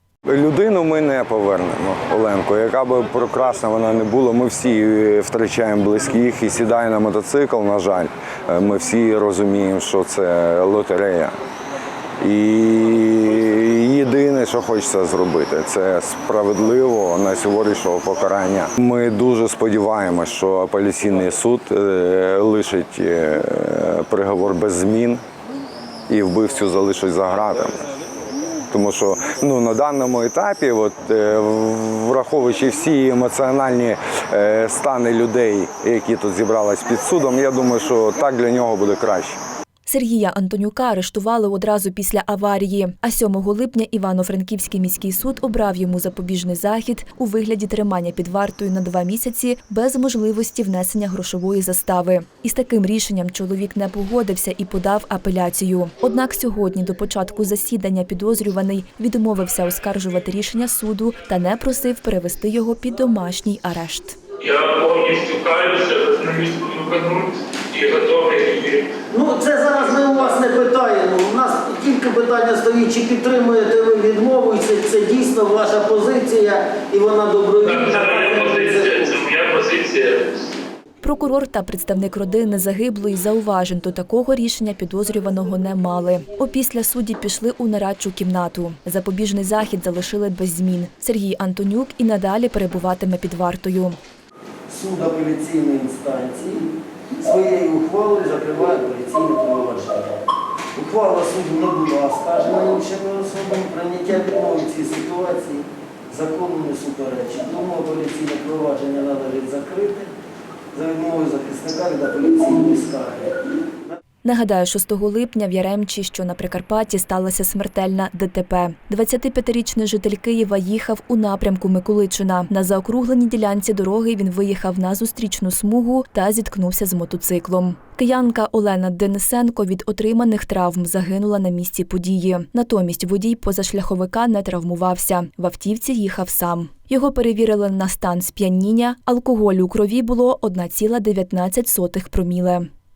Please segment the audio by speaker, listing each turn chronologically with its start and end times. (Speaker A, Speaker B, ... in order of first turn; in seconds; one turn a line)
Speaker A: 0.3-11.3
Speaker A: 12.2-25.2
Speaker A: 26.1-27.9
Speaker A: 28.7-39.4
Speaker B: 39.9-64.2
Speaker C: 64.4-68.9
Speaker D: 69.1-79.2
Speaker C: 77.6-80.5
Speaker B: 81.0-94.0
Speaker D: 94.7-100.2
Speaker D: 100.7-110.1
Speaker D: 110.7-113.4
Speaker B: 114.2-142.7